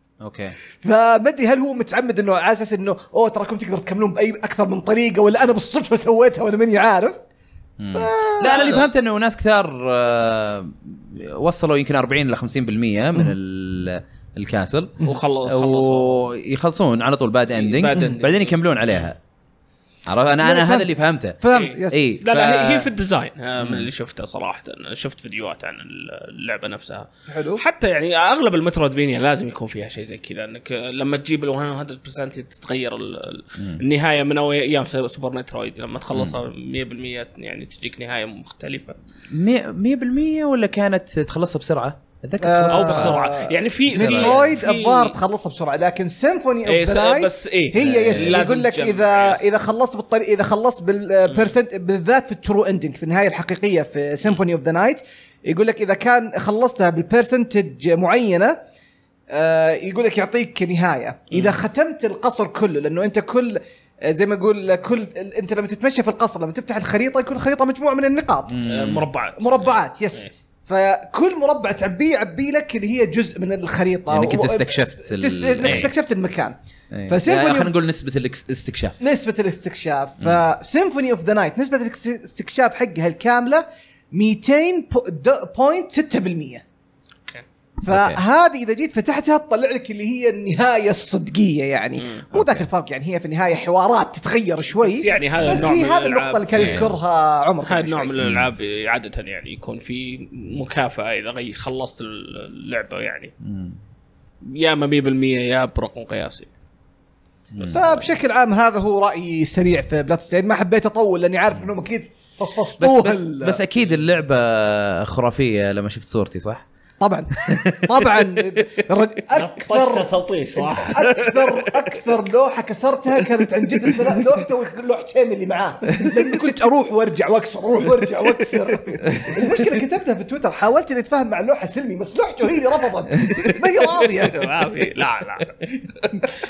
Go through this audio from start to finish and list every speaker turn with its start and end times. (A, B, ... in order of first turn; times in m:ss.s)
0:00.2-0:00.6 A
0:00.8-0:07.2 B
0:07.8-0:19.2 A
0:07.9-0:08.8 B
0:08.5-0:08.8 C
0:15.0-0:16.3 C
0:17.6-0:18.6 C
0:20.1-0:22.9 A
0:20.4-0:20.9 B
0:21.4-0:22.0 B
0:21.5-0:39.0 C
0:23.6-0:23.9 A
0:27.3-0:27.6 B
0:36.1-0:36.4 A
0:39.3-0:43.2 A
0:42.4-0:58.6 B
0:42.7-0:45.1 C
0:43.9-0:44.4 A
0:46.6-0:49.5 C
0:47.9-0:48.4 A
0:59.3-1:08.6 B
1:01.3-1:01.6 C
1:08.5-1:09.0 A
1:08.6-1:10.3 C
1:09.4-1:16.6 B
1:14.1-1:15.9 A
1:16.9-1:19.0 A
1:17.1-1:17.7 B
1:19.0-1:26.6 B
1:27.8-1:38.1 B
1:27.9-1:28.2 A
1:32.0-1:32.2 C
1:32.3-1:32.7 A
1:34.8-1:36.8 C
1:36.5-1:37.0 A
1:37.6-1:43.3 C
1:38.2-1:38.5 A
1:43.4-1:43.8 A
1:44.4-1:46.5 C
1:47.5-1:47.8 A
1:47.6-1:48.1 C
1:47.7-1:53.6 B
1:52.8-1:56.6 A
1:57.0-2:14.7 B
1:57.4-1:58.8 A
1:59.3-2:02.0 C
2:03.8-2:04.1 C
2:13.8-2:16.2 C